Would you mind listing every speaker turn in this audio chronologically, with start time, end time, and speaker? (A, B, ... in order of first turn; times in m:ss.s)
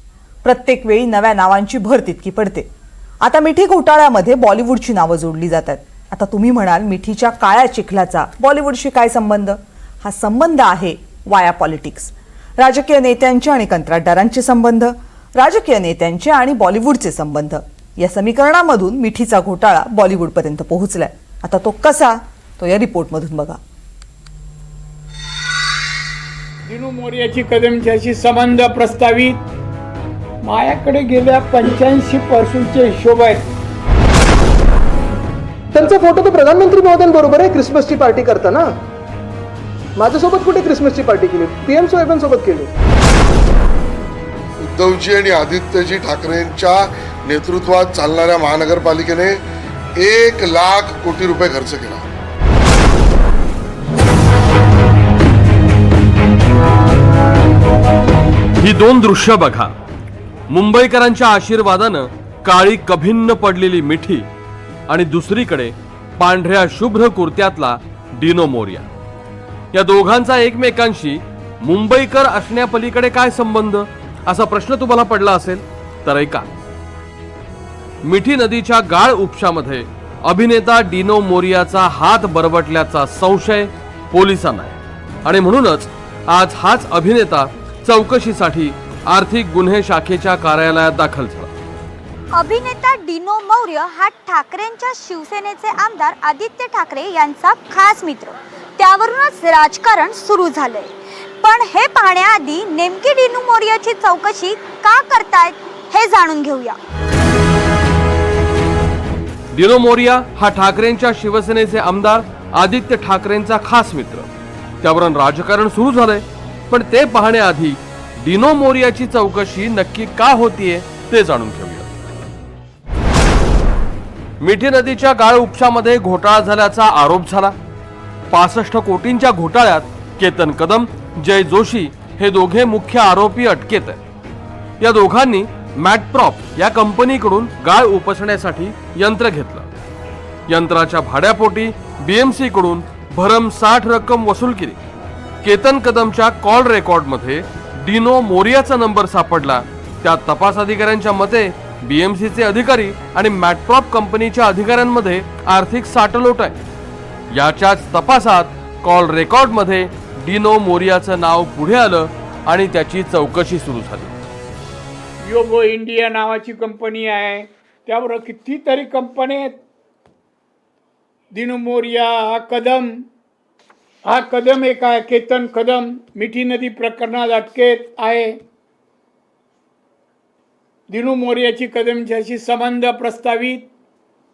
0:00.4-0:02.7 A
0:03.2-0:23.6 A
0:26.7-0:29.4 B
0:30.4-0:33.5 B
0:35.7-0:38.7 C
0:40.0-0:42.7 C
0:44.6-0:49.4 D
0:50.0-0:52.0 D
0:58.6-0:59.7 E
1:00.5-1:04.3 E
1:04.9-1:08.9 E
1:09.7-1:16.4 E
1:18.0-1:31.5 E
1:32.3-1:46.8 F
1:49.5-1:54.3 E
1:54.8-2:01.9 E
2:04.4-2:07.5 E
2:08.3-2:14.0 E
2:14.8-2:19.7 E
2:20.5-2:24.8 E
2:25.4-2:36.6 E
2:37.3-2:44.1 E
2:45.2-2:49.6 B
2:51.3-2:53.0 B
2:54.0-2:58.4 B
3:00.9-3:03.7 B